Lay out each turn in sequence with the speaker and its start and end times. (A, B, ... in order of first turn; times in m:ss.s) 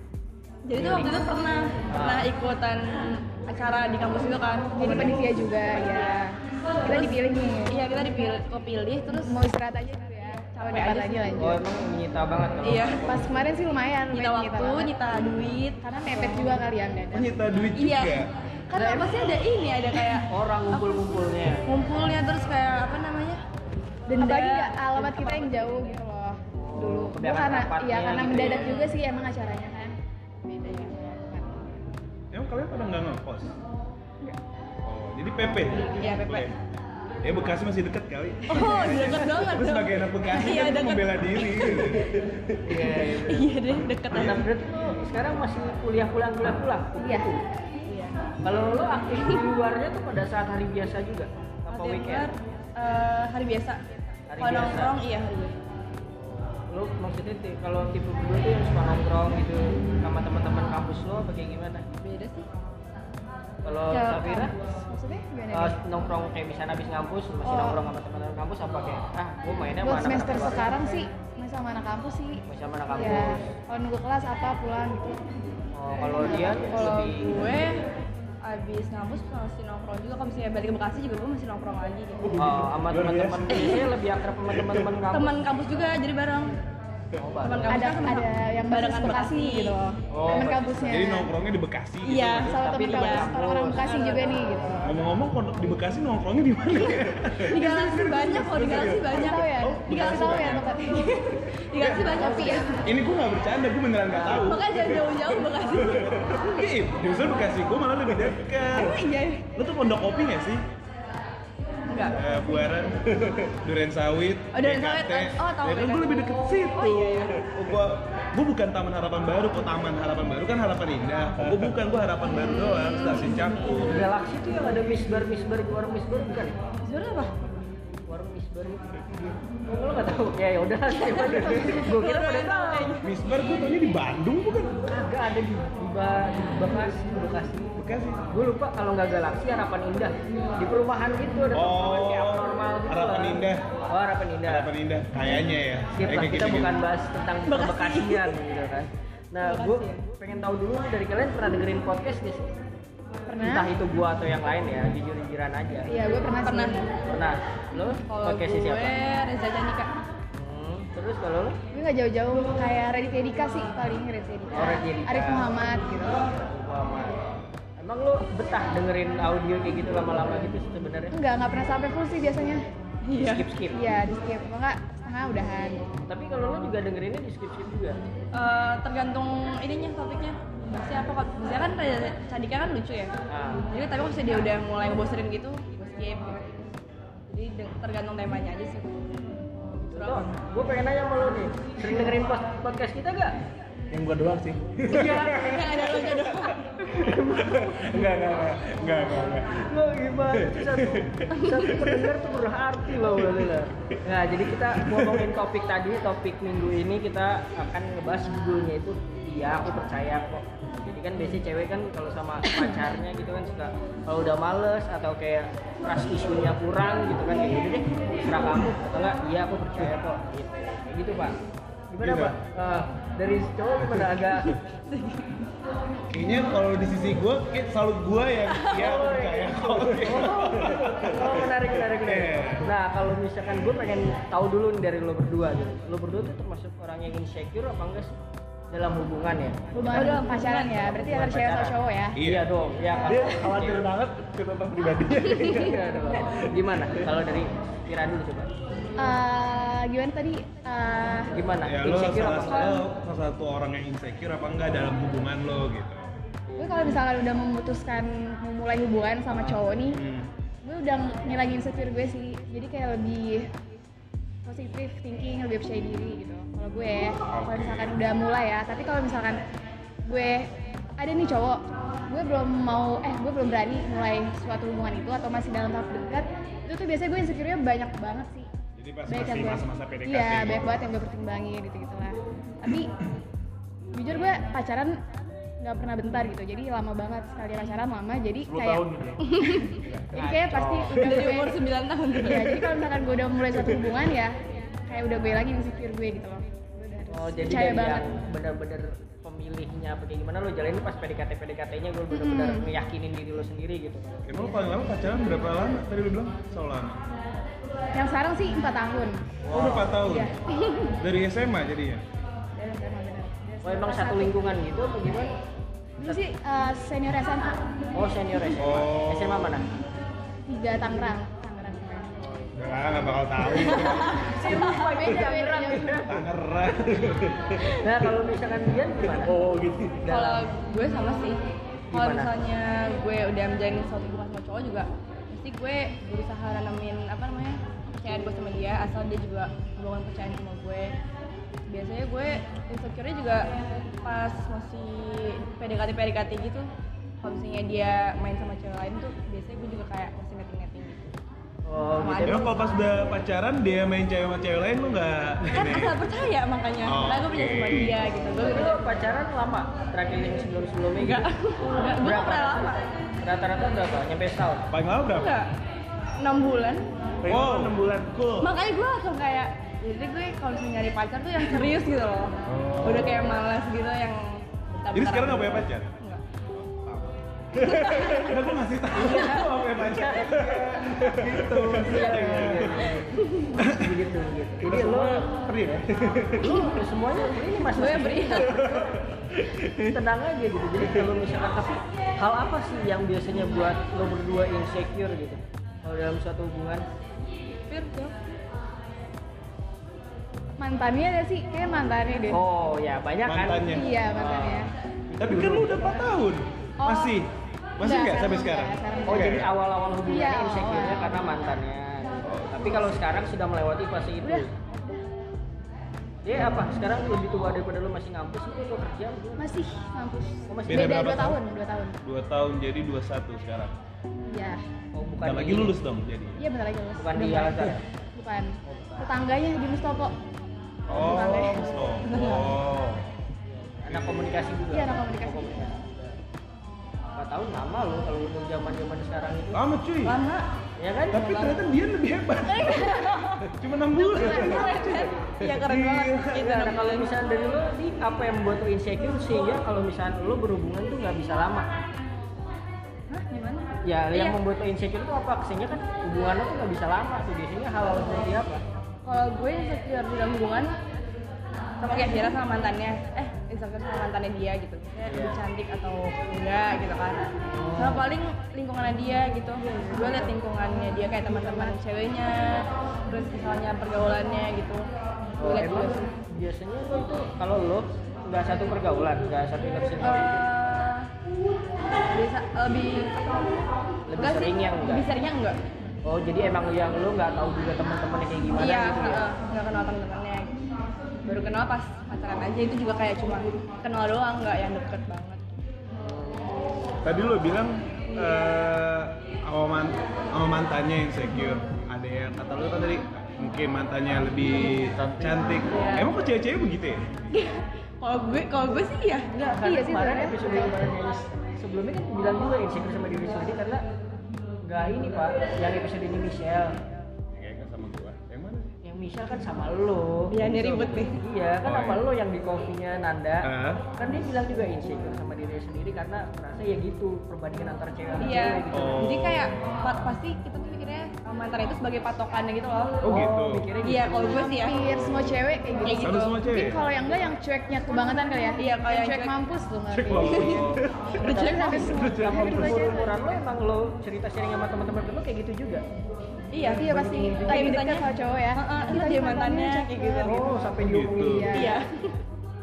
0:00.6-0:05.2 A
0:00.7-0:01.2 B
0:01.9-0:02.3 B
0:04.7-0:08.0 C
0:05.7-0:06.1 A
0:06.8-0:09.5 A
0:09.2-0:11.6 C
0:10.5-0:11.5 A
0:11.4-0:13.2 B
0:12.6-0:13.0 A
0:13.0-0:14.9 C
0:14.1-0:16.6 A
0:15.8-0:17.3 C
0:17.1-0:18.3 D
0:17.7-0:21.1 A
0:18.7-0:19.4 B
0:20.2-0:21.6 B
0:21.6-0:23.4 A
0:24.1-0:31.7 C
0:24.1-0:25.9 A
0:26.6-0:28.9 B
0:30.6-0:30.9 A
0:32.3-0:33.6 D
0:34.8-0:36.6 D
0:35.8-0:36.5 A
0:37.2-0:42.8 D
0:38.5-0:42.1 A
0:42.6-0:47.4 B
0:42.9-0:44.4 A
0:44.1-0:44.4 D
0:47.0-0:47.3 C
0:47.9-0:48.2 A
0:48.4-0:52.3 B
0:51.7-0:53.8 A
0:54.3-0:54.9 B
0:54.4-0:55.5 A
0:56.2-1:01.8 B
1:02.0-1:02.5 A
1:03.6-1:04.5 B
1:03.9-1:04.5 A
1:04.8-1:05.8 C
1:05.5-1:10.7 B
1:09.8-1:15.2 C
1:12.5-1:13.5 B
1:15.7-1:17.4 B
1:16.2-1:16.6 C
1:16.4-1:17.7 A
1:18.4-1:22.4 A
1:22.2-1:24.0 E
1:22.4-1:25.4 B
1:24.5-1:24.8 E
1:25.1-1:26.6 A
1:27.2-1:28.0 B
1:27.4-1:29.8 A
1:27.7-1:31.3 C
1:30.1-1:31.0 B
1:30.8-1:32.5 D
1:32.0-1:34.5 A
1:32.4-1:35.0 C
1:32.4-1:33.9 B
1:34.8-1:40.7 D
1:36.9-1:42.8 A
1:39.1-1:41.4 C
1:41.7-1:45.2 D
1:44.3-1:46.5 A
1:45.7-1:49.0 D
1:48.7-1:49.4 A
1:49.6-1:50.6 D
1:51.9-1:52.2 A
1:52.1-2:04.0 D
1:54.5-1:57.4 A
2:01.4-2:01.7 E
2:02.4-2:03.8 A
2:03.8-2:06.5 B
2:06.8-2:07.3 A
2:08.1-2:09.1 B
2:09.7-2:13.0 B
2:11.0-2:13.1 A
2:13.0-2:14.8 D
2:14.9-2:17.7 B
2:17.8-2:18.2 D
2:18.3-2:24.7 B
2:21.5-2:23.6 D
2:24.4-2:26.7 D
2:25.9-2:32.5 B
2:27.5-2:28.3 A
2:29.4-2:30.0 A
2:33.3-2:33.7 C
2:33.4-2:35.9 B
2:35.8-2:36.9 C
2:36.4-2:36.9 A
2:37.1-2:39.0 B
2:38.0-2:39.9 A
2:40.3-2:41.6 B
2:41.7-2:45.9 C
2:44.5-2:45.5 B
2:46.2-2:47.1 B
2:47.8-2:51.1 B
2:51.1-2:52.6 C
2:53.0-2:53.4 A
2:53.2-2:53.8 B
2:53.7-2:55.8 C
2:56.0-2:58.0 B
2:58.3-3:03.1 A
3:03.3-3:03.7 B
3:03.7-3:06.7 A
3:07.3-3:09.1 A
3:09.9-3:10.4 A
3:09.9-3:13.3 B
3:13.9-3:15.5 E
3:14.8-3:15.9 B
3:15.2-3:16.7 A
3:17.0-3:17.8 B
3:17.7-3:19.5 D
3:17.7-3:19.4 E
3:19.6-3:41.3 B
3:20.5-3:21.0 E
3:41.9-3:44.6 B
3:42.0-3:42.4 D
3:44.9-3:45.2 A
3:46.1-3:52.7 D
3:48.6-3:48.9 A
3:48.7-3:58.2 B
3:58.7-4:00.1 B
3:59.7-4:02.2 C
3:59.9-4:00.9 A
4:00.8-4:03.9 B
4:02.1-4:02.5 D
4:03.0-4:06.3 E
4:05.4-4:08.5 B
4:09.0-4:11.3 C
4:11.3-4:12.8 B
4:11.6-4:16.2 D
4:16.6-4:20.0 C
4:19.9-4:20.3 D
4:20.6-4:23.5 C
4:24.4-4:29.4 C
4:27.3-4:28.0 D
4:30.0-4:38.5 C
4:38.8-4:40.8 D
4:39.1-4:42.9 C
4:43.9-4:45.0 C
4:45.6-4:48.8 C
4:48.4-4:49.3 E
4:49.3-4:49.8 A
4:50.1-4:51.0 B
4:50.1-4:51.6 C
4:50.9-4:52.7 A
4:52.2-4:58.1 C
4:57.1-5:04.6 B
5:02.1-5:02.7 C
5:04.2-5:07.0 D
5:07.9-5:10.3 C
5:09.4-5:09.9 B
5:09.5-5:10.3 D
5:10.6-5:10.9 A
5:11.0-5:12.0 D
5:12.6-5:14.4 C
5:13.6-5:15.3 B
5:16.0-5:17.6 C
5:17.9-5:19.6 B
5:18.6-5:19.6 D
5:20.5-5:22.1 C
5:22.2-5:22.5 B
5:22.5-5:24.3 D
5:23.5-5:24.9 A
5:23.6-5:26.2 B
5:24.3-5:26.0 C
5:26.1-5:27.4 D
5:26.9-5:27.6 E
5:27.8-5:29.4 B
5:29.2-5:30.0 E
5:30.0-5:30.5 B
5:30.1-5:31.4 A
5:31.9-5:32.3 B
5:31.9-5:40.9 A
5:41.7-5:43.4 A
5:44.0-5:46.7 A
5:47.2-5:51.1 A
5:51.6-5:52.5 B
5:52.0-5:52.8 A
5:52.2-5:55.9 D
5:55.5-5:58.9 A
5:56.8-5:58.0 D
5:58.4-6:01.2 B
6:01.0-6:02.8 A
6:02.0-6:04.7 B
6:04.7-6:05.3 D
6:05.1-6:05.5 A
6:06.2-6:06.8 A
6:07.2-6:08.5 E
6:07.2-6:08.0 D
6:08.4-6:16.2 A
6:12.5-6:13.3 D
6:14.9-6:16.0 D
6:16.5-6:23.0 D
6:17.6-6:18.4 A
6:19.0-6:25.3 B
6:19.0-6:19.4 A
6:23.2-6:23.5 A
6:23.6-6:24.0 D
6:24.6-6:26.7 E
6:25.3-6:25.8 D
6:26.4-6:29.0 B
6:27.6-6:28.8 A
6:28.6-6:29.6 E
6:29.7-6:36.8 B
6:37.7-6:38.1 A
6:40.6-6:42.4 C
6:42.3-6:46.0 B
6:43.2-6:43.9 D
6:43.6-6:44.7 C
6:45.2-6:49.5 D
6:46.8-6:47.1 C
6:47.8-6:49.4 C
6:49.0-6:54.5 B
6:50.1-6:51.4 C
6:52.2-6:52.5 D
6:52.6-6:52.9 C
6:54.2-6:55.0 C
6:56.2-6:59.5 B
6:59.4-7:02.0 C
7:00.5-7:01.1 B
7:00.7-7:01.4 D
7:02.0-7:03.7 D
7:04.3-7:04.6 C
7:04.9-7:05.8 B
7:05.2-7:06.5 D
7:06.4-7:10.1 C
7:07.0-7:07.8 B
7:08.6-7:09.1 B
7:10.9-7:12.0 C
7:10.9-7:13.1 D
7:12.0-7:12.5 A
7:13.4-7:16.2 B
7:13.8-7:14.3 D
7:14.7-7:15.7 C
7:17.1-7:19.6 B
7:19.5-7:20.2 D
7:20.0-7:20.4 A
7:20.8-7:21.3 B
7:21.1-7:26.5 D
7:21.2-7:21.6 A
7:22.4-7:23.5 A
7:24.0-7:27.1 A
7:24.2-7:24.6 C
7:26.4-7:31.7 B
7:33.1-7:34.4 A
7:33.8-7:38.6 B
7:39.0-7:40.7 A
7:41.8-7:47.2 A
7:45.1-7:45.4 B
7:47.5-7:48.0 B
7:47.8-7:54.8 A
7:49.7-7:50.2 C
7:55.4-8:00.4 B
7:55.4-7:56.1 A
8:00.0-8:01.1 A
8:02.1-8:03.6 A
8:04.1-8:05.0 B
8:04.2-8:05.6 A
8:06.0-8:09.3 B
8:08.6-8:10.5 A
8:11.2-8:15.6 A
8:15.9-8:16.5 B
8:17.0-8:27.1 D
8:25.7-8:26.1 A
8:27.3-8:29.6 A
8:29.5-8:33.8 B
8:29.6-8:30.7 C
8:34.6-8:36.7 B
8:37.3-8:38.8 D
8:38.8-8:49.0 B
8:40.3-8:41.2 A
8:41.6-8:42.0 D
8:43.4-8:43.8 D
8:48.2-8:53.0 A
8:48.7-8:49.5 D
8:53.0-8:53.6 D
8:53.1-8:54.6 B
8:53.8-8:54.8 A
8:54.4-9:00.6 C
8:55.8-8:56.3 A
8:56.0-8:56.8 D
8:58.6-8:59.3 A
8:59.9-9:02.8 E
9:00.0-9:00.8 D
9:00.2-9:00.6 A
9:01.2-9:02.2 A
9:01.2-9:03.4 C
9:02.2-9:05.8 B
9:06.5-9:10.5 A
9:06.6-9:07.8 B
9:06.6-9:11.8 C
9:10.2-9:11.8 B
9:10.8-9:11.6 D
9:11.5-9:12.1 A